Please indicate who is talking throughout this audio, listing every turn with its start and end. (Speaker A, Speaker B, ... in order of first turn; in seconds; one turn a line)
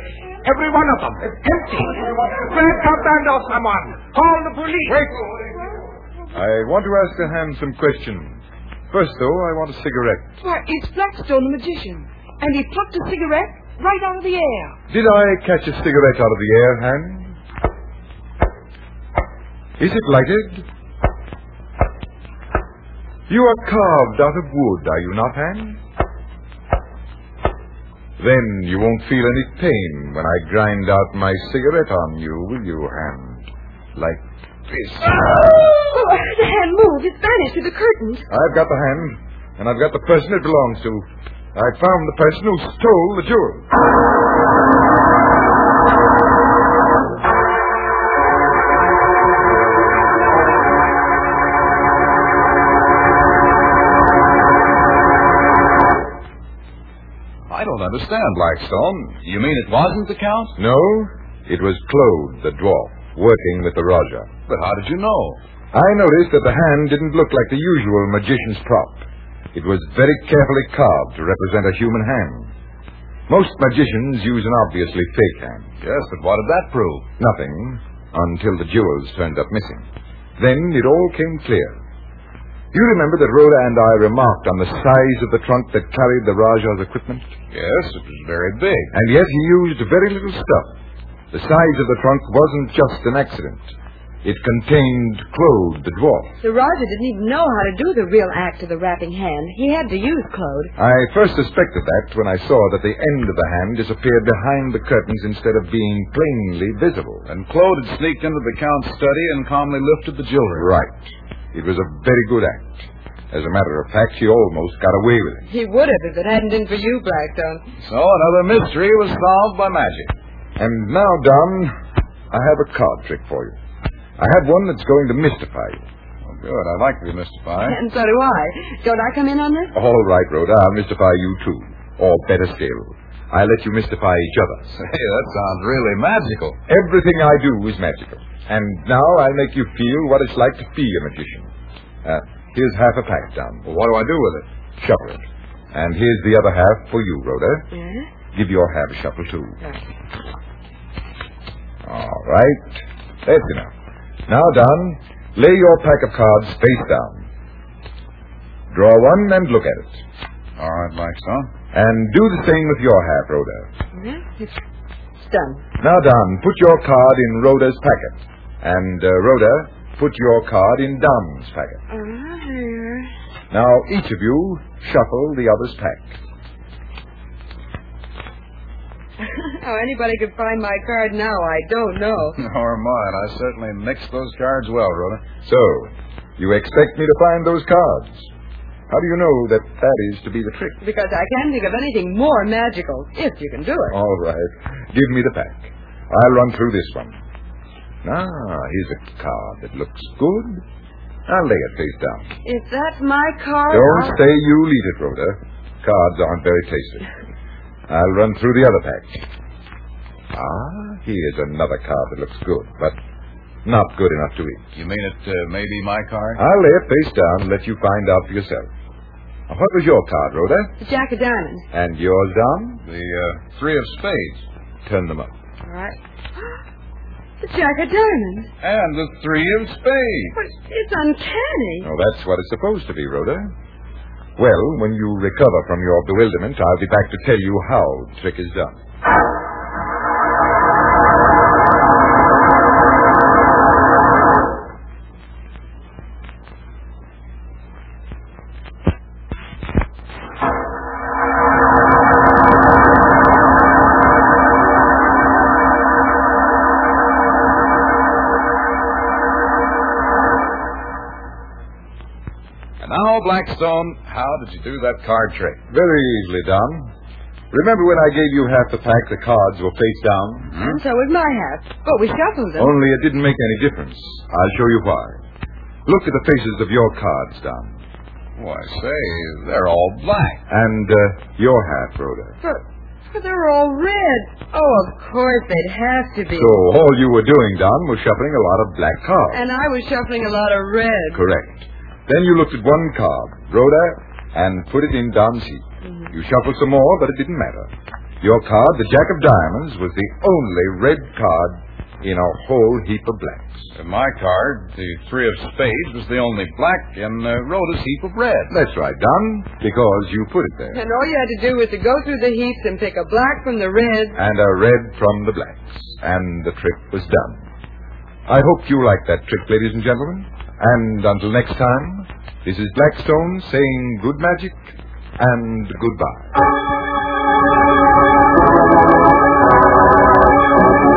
Speaker A: 0.4-5.1
Speaker B: 6.3-10.3
Speaker C: 10.4-14.8
Speaker B: 14.9-17.4
Speaker B: 19.8-20.7
Speaker B: 23.3-25.8
Speaker B: 28.2-35.2
Speaker D: 35.0-38.3
Speaker B: 38.3-43.7
Speaker E: 57.5-60.5
Speaker B: 60.6-64.3
Speaker E: 64.5-65.4
Speaker B: 65.7-72.5
Speaker B: 73.3-75.7
Speaker E: 75.8-77.1
Speaker B: 77.2-79.8
Speaker B: 80.4-81.8
Speaker B: 82.7-87.3
Speaker E: 87.5-88.9
Speaker B: 88.9-90.7
Speaker B: 91.3-93.7
Speaker B: 94.2-96.3
Speaker D: 96.4-100.7
Speaker B: 100.8-107.2
Speaker E: 107.3-110.7
Speaker B: 110.5-115.5
Speaker D: 115.5-117.6
Speaker E: 117.8-120.1
Speaker B: 120.6-121.7
Speaker B: 122.3-123.6
Speaker B: 124.2-125.8
Speaker E: 126.3-127.8
Speaker D: 127.6-129.8
Speaker B: 129.7-134.7
Speaker E: 134.7-136.6
Speaker B: 136.7-141.5
Speaker B: 142.0-143.7
Speaker E: 143.7-144.4
Speaker B: 144.8-147.7
Speaker D: 147.7-148.1
Speaker B: 148.3-149.6
Speaker B: 151.8-153.7
Speaker B: 154.3-157.2
Speaker B: 158.7-160.0
Speaker E: 160.6-161.5
Speaker B: 161.7-163.7
Speaker D: 163.9-164.6
Speaker D: 165.2-165.6
Speaker B: 165.8-171.8
Speaker D: 171.9-173.1
Speaker B: 173.5-176.2
Speaker D: 179.2-182.4
Speaker E: 182.4-185.2
Speaker B: 185.4-188.3
Speaker B: 188.9-190.8
Speaker D: 190.8-194.0
Speaker B: 193.9-197.2
Speaker B: 198.0-200.6
Speaker B: 201.3-202.3
Speaker D: 202.4-204.2
Speaker B: 203.7-207.1
Speaker B: 207.9-209.2
Speaker B: 210.3-213.0
Speaker B: 213.7-214.7
Speaker E: 214.8-216.4
Speaker B: 216.4-218.7
Speaker B: 219.5-220.7
Speaker D: 220.8-221.7
Speaker B: 221.7-222.8
Speaker E: 222.9-224.4
Speaker B: 224.9-225.3
Speaker D: 225.7-226.0
Speaker D: 227.4-228.5
Speaker E: 228.6-230.3
Speaker D: 230.3-231.9
Speaker B: 231.8-233.5
Speaker B: 234.4-238.8
Speaker E: 262.8-265.6
Speaker B: 265.7-266.9
Speaker B: 267.5-270.5
Speaker E: 270.5-270.8
Speaker D: 270.6-272.8
Speaker B: 272.6-275.2
Speaker B: 275.9-277.8
Speaker E: 278.4-280.4
Speaker B: 280.5-282.4
Speaker D: 282.4-286.6
Speaker B: 286.3-289.4
Speaker D: 289.3-291.2
Speaker B: 291.1-297.7
Speaker B: 298.2-303.7
Speaker E: 303.8-308.5
Speaker B: 308.5-310.8
Speaker D: 310.7-314.2
Speaker B: 314.1-317.4
Speaker B: 318.3-326.4